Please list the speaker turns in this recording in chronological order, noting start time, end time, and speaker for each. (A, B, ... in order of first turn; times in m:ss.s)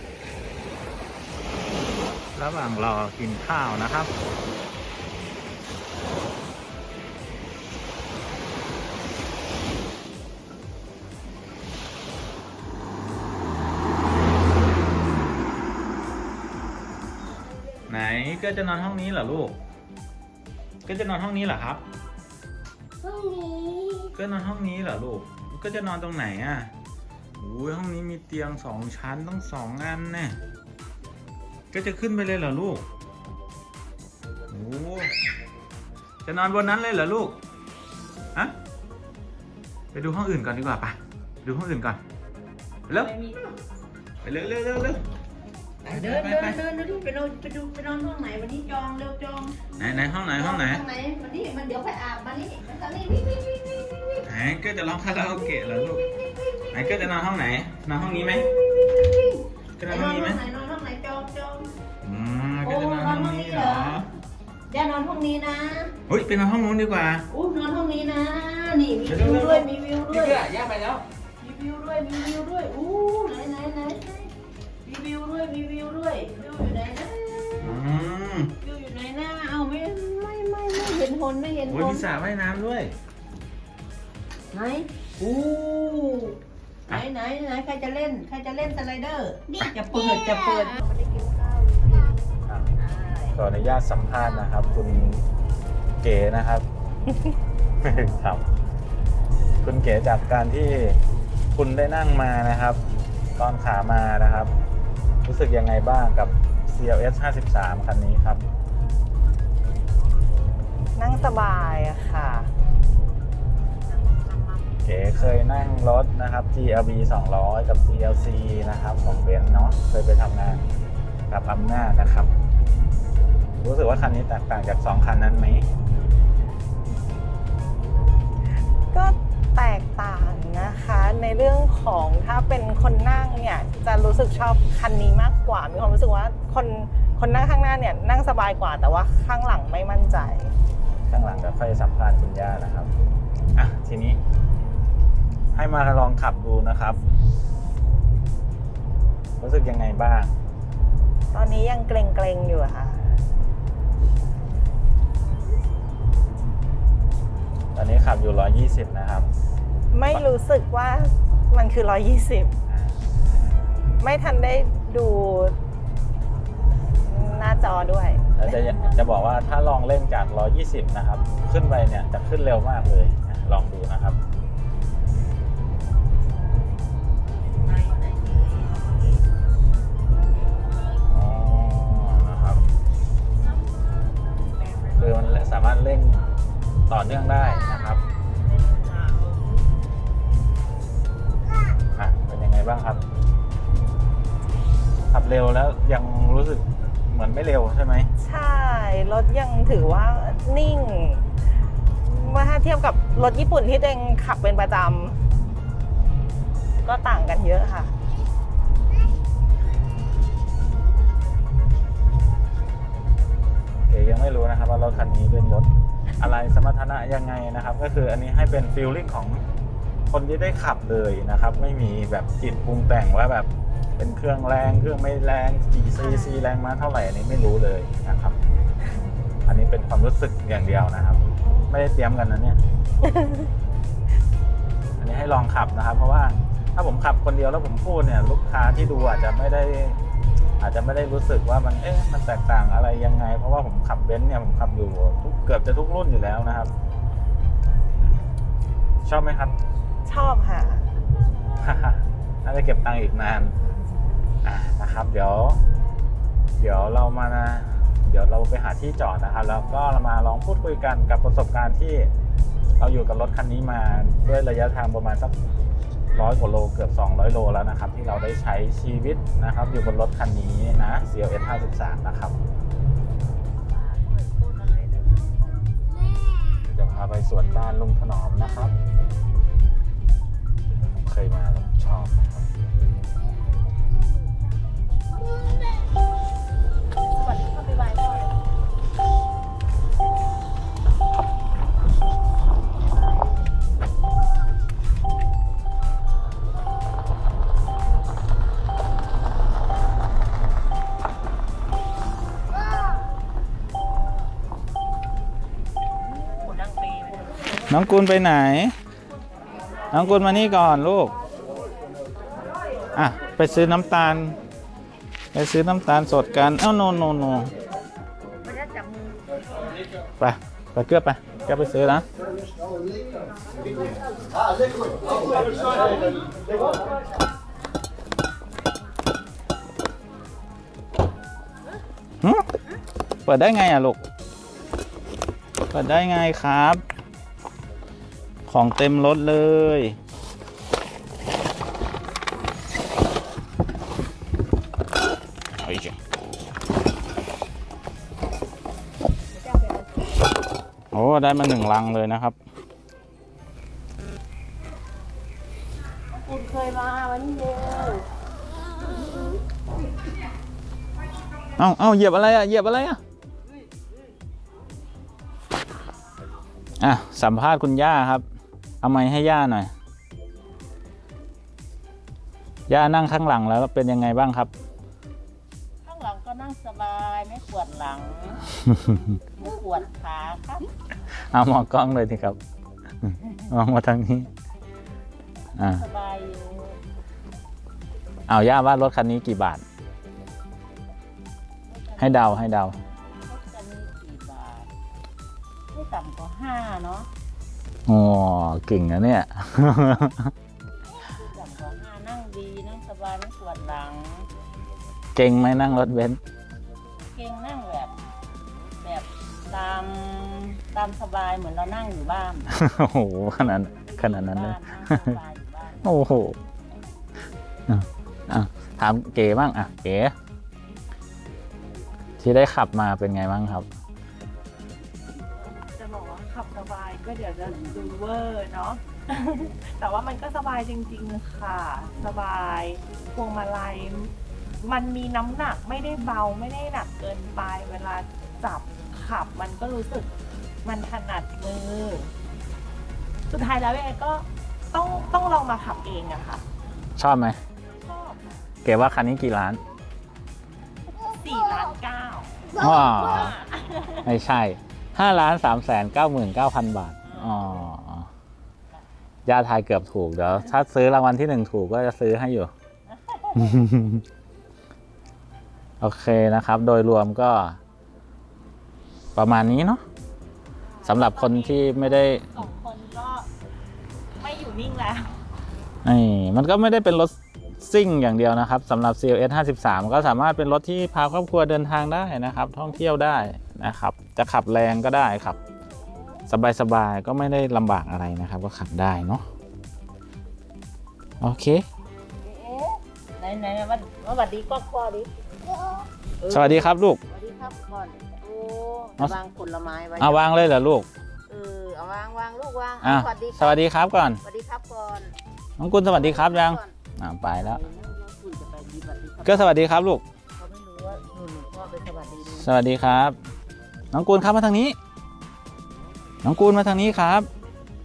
0:02.4-0:04.1 A
0:17.9-0:19.6 A
0:20.8-0:21.8 A
0:24.1-0:26.7 A
0:27.4-0:30.4 A
0:31.7-0:32.8 A
0:34.5-0:35.1 A
0:36.2-0:37.4 A
0:39.9-0:42.0 A
0:42.9-0:43.5 B
0:44.2-0:45.0 A
0:45.8-0:46.6 A
0:45.8-0:53.4 B
0:49.7-0:50.8 A
0:54.2-0:56.0 A
0:56.7-0:58.5 A
0:59.0-1:01.7 B
0:59.8-1:00.4 A
1:02.0-1:04.1 A
1:02.6-1:04.0 B
1:04.7-1:05.9 B
1:06.1-1:07.3 A
1:07.3-1:10.5 B
1:09.0-1:11.0 A
1:11.4-1:14.3 B
1:14.8-1:17.8 B
1:17.6-1:18.5 A
1:18.6-1:22.1 B
1:21.7-1:22.9 A
1:24.5-1:32.1 B
1:32.5-1:32.7 A
1:32.8-1:33.4 B
1:33.3-1:35.2 A
1:36.0-1:36.6 A
1:37.8-1:38.5 A
1:39.6-1:41.0 A
1:41.5-1:42.8 A
1:43.4-1:44.5 A
1:45.2-1:48.4 A
1:51.0-1:52.5 C
1:53.9-1:54.6 B
1:54.8-2:00.6 A
2:01.3-2:02.3 A
2:03.6-2:05.7 A
2:08.9-2:20.5 C
2:21.1-2:22.9 A
2:23.6-2:24.2 A
2:25.5-2:27.0 A
2:29.4-2:30.3 A
2:31.3-2:33.0 C
2:37.7-2:39.3 A
2:39.9-2:42.5 C
2:42.7-2:43.5 A
2:44.0-2:45.6 C
2:47.0-2:49.0 C
2:48.4-2:54.2 A
2:57.6-2:59.2 B
3:01.1-3:02.7 A
3:05.0-3:06.3 A
3:06.9-3:08.0 A
3:08.4-3:09.5 B
3:12.0-3:13.0 A
3:15.1-3:18.1 A
3:18.2-3:21.2 C
3:22.0-3:25.2 C
3:26.8-3:27.9 C
3:33.9-3:39.4 A
3:40.1-3:48.4 A
3:49.5-3:52.6 A
3:53.0-3:53.5 C
3:55.0-4:00.0 A
4:00.6-4:06.7 A
4:09.0-4:09.5 A
4:10.0-4:10.9 C
4:11.6-4:13.5 A
4:14.4-4:15.6 A
4:16.6-4:22.1 A
4:22.8-4:25.3 A
4:26.1-4:32.4 A
4:33.6-4:35.4 B
4:36.6-4:38.7 A
4:40.9-4:42.5 A
4:47.2-4:48.3 B
5:06.4-5:07.2 C
5:07.7-5:08.7 A
5:09.9-5:11.1 A
5:12.9-5:14.4 A
5:15.3-5:17.5 A
5:18.4-5:19.2 B
5:20.2-5:22.0 A
5:33.2-5:34.0 A
5:35.7-5:36.8 A
5:38.5-5:40.0 A
5:45.6-5:46.0 A
5:49.4-5:50.0 B
5:50.9-5:52.4 A
5:56.1-5:58.0 B
6:01.6-6:03.0 A
6:06.8-6:08.2 A
6:08.8-6:09.7 A
6:12.7-6:14.5 A
6:15.8-6:18.4 B
6:18.6-6:19.1 A
6:19.4-6:20.7 B
6:21.3-6:22.4 A
6:23.0-6:24.3 A
6:25.6-6:25.8 A
6:25.6-6:26.8 B
6:28.3-6:29.6 A
6:31.7-6:32.6 B
6:32.0-6:32.8 A
6:33.2-6:34.7 B
6:35.7-6:37.1 B
6:37.9-6:40.3 A
6:40.9-6:44.3 B
6:45.1-6:46.2 A
6:46.9-6:47.9 B
6:48.8-6:52.5 B
6:52.5-6:55.2 A
6:53.9-6:56.2 B
6:55.8-6:56.4 A
6:57.7-7:00.1 A
7:02.2-7:03.6 A
7:05.3-7:20.1 C
7:20.6-7:22.1 C
7:23.3-7:26.4 C
7:27.0-7:27.4 A
7:28.6-7:29.6 A
7:31.1-7:34.0 C
7:32.5-7:33.4 A
7:34.0-7:38.1 A
7:37.0-7:37.7 B
7:39.2-7:42.5 A
7:42.9-7:43.7 B
7:43.4-7:44.0 A
7:45.8-7:47.6 A
7:49.2-7:49.8 A
7:50.8-7:53.3 C
7:50.8-7:52.3 A
7:52.4-7:52.9 B
7:54.2-7:55.1 C
7:55.8-8:05.4 A
8:06.3-8:09.2 A
8:11.2-8:11.6 A
8:12.2-8:15.1 B
8:16.2-8:20.5 B
8:16.3-8:17.0 A
8:20.0-8:20.9 A
8:21.3-8:23.6 B
8:22.8-8:24.2 A
8:24.2-8:25.2 B
8:25.6-8:27.6 A
8:25.9-8:26.7 B
8:27.4-8:29.6 B
8:29.2-8:30.0 A
8:30.4-8:32.5 B
8:32.3-8:33.2 A
8:33.9-8:34.8 A
8:36.2-8:37.3 A